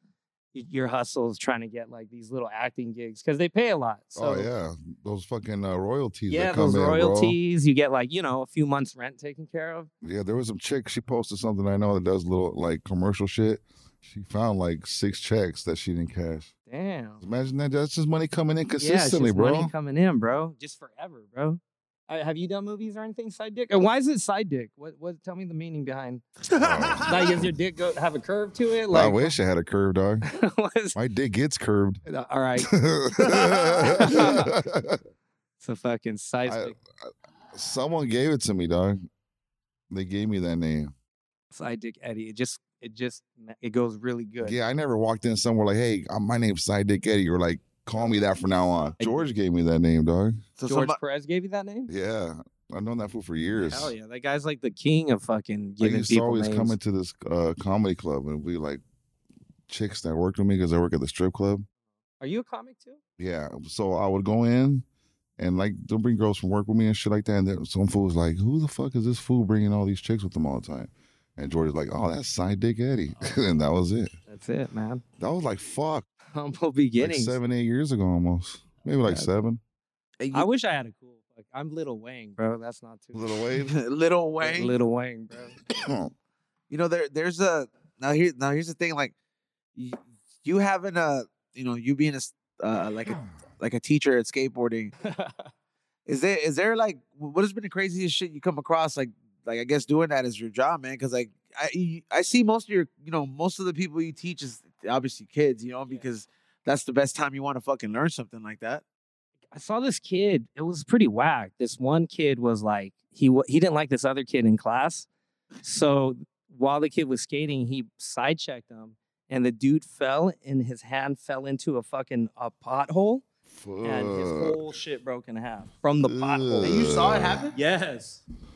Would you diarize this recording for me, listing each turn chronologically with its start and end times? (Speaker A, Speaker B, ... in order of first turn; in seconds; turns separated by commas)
Speaker A: 0.5-4.5, Speaker B: 4.2-7.4, Speaker A: 6.3-9.9, Speaker B: 10.0-16.5, Speaker A: 16.7-17.2, Speaker B: 17.2-19.7, Speaker A: 18.8-29.3, Speaker B: 26.5-27.5, Speaker B: 28.9-30.2, Speaker A: 30.2-31.0, Speaker B: 30.9-32.0, Speaker A: 32.1-34.5, Speaker B: 32.6-35.0, Speaker A: 35.6-36.7, Speaker B: 36.5-39.0, Speaker B: 39.9-40.9, Speaker A: 41.5-44.5, Speaker B: 44.4-50.4, Speaker A: 49.0-49.2, Speaker C: 50.6-51.0, Speaker A: 50.7-51.9, Speaker B: 51.9-53.9, Speaker A: 53.6-56.8, Speaker B: 55.8-58.8, Speaker B: 59.7-61.6, Speaker A: 62.2-63.0, Speaker B: 63.2-64.8, Speaker B: 65.4-74.1, Speaker A: 74.3-75.0, Speaker B: 75.2-76.1, Speaker A: 76.3-77.4, Speaker B: 77.0-79.6, Speaker C: 80.2-80.5, Speaker A: 80.3-83.2, Speaker B: 83.1-83.7, Speaker C: 83.7-84.7, Speaker A: 84.4-85.5, Speaker B: 85.7-86.1, Speaker C: 86.7-89.1, Speaker C: 89.8-94.9, Speaker A: 95.0-95.5, Speaker C: 96.0-108.8, Speaker A: 109.5-115.1, Speaker A: 115.6-123.2, Speaker B: 123.5-124.6, Speaker A: 123.8-126.9, Speaker B: 126.0-127.4, Speaker C: 126.6-127.5, Speaker A: 127.5-128.2